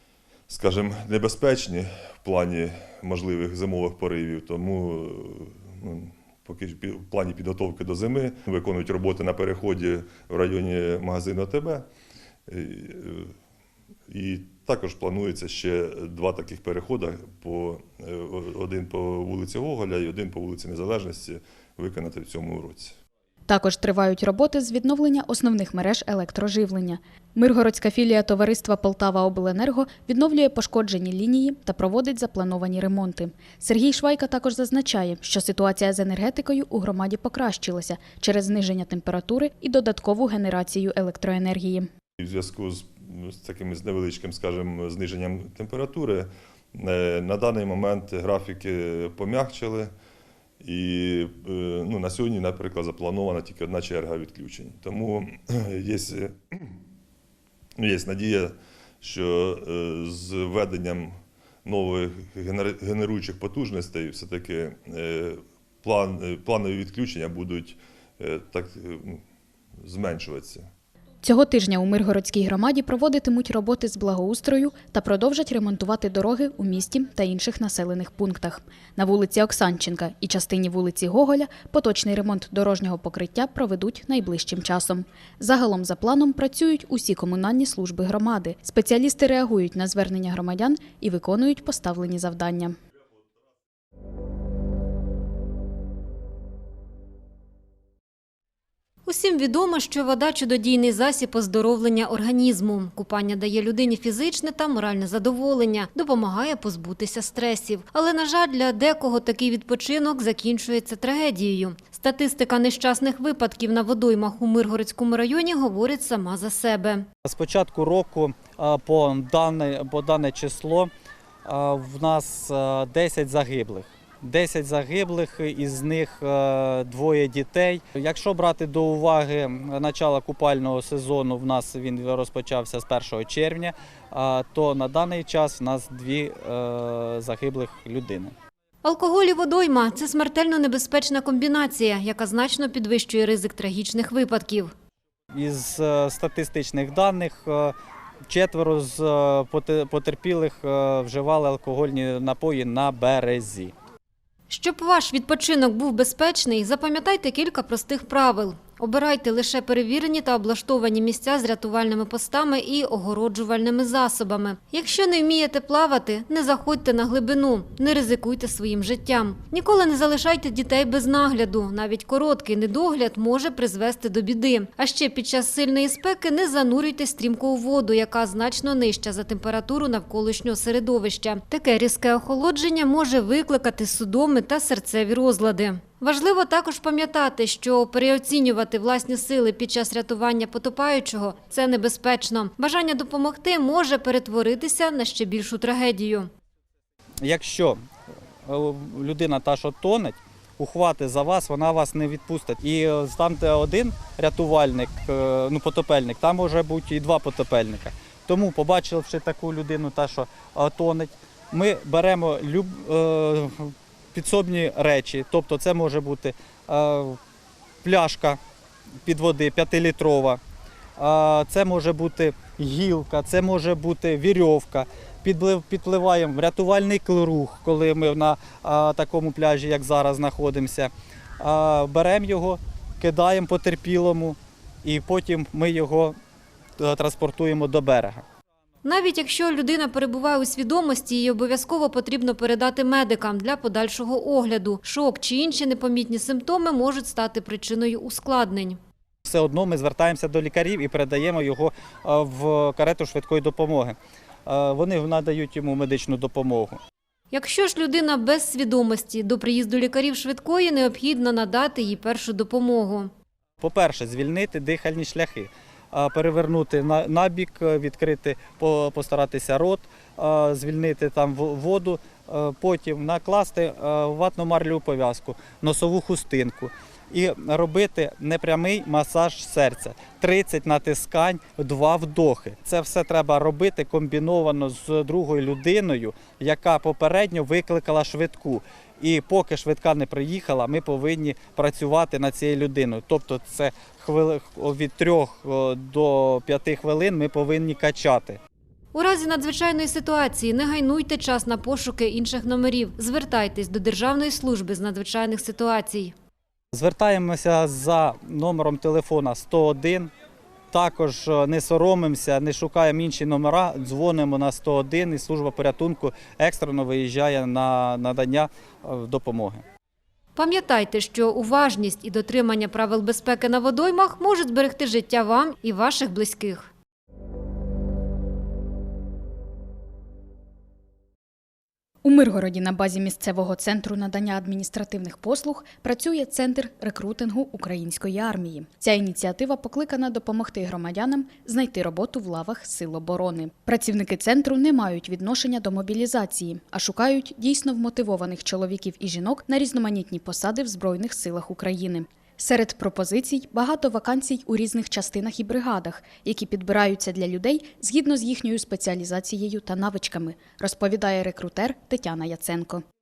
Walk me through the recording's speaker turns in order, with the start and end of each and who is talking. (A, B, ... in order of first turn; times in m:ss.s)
0:00.5-0:11.8 A
0:12.5-0:13.3 A
0:14.1-0:23.0 A
0:23.5-0:41.9 B
0:42.2-0:49.9 A
0:50.6-0:56.7 A
0:57.8-1:09.2 A
1:09.8-1:10.7 A
1:11.2-1:32.8 B
1:39.0-1:57.0 C
1:57.2-2:00.9 D
2:01.4-2:18.3 D
2:18.8-2:24.7 C
2:25.3-2:27.7 D
2:28.3-2:33.7 D
2:34.5-3:16.3 C
3:17.2-3:17.8 D
3:18.4-3:37.2 D
3:37.8-3:38.4 D
3:39.0-3:40.4 D
3:41.0-3:56.2 D
3:56.8-3:58.2 D
3:58.8-4:08.8 C
4:09.2-4:16.8 D
4:17.3-4:23.1 C
4:23.6-4:58.4 D
4:58.9-5:06.1 C
5:06.7-5:10.1 D
5:10.7-5:19.6 D
5:20.4-5:26.7 C
5:32.0-6:02.8 B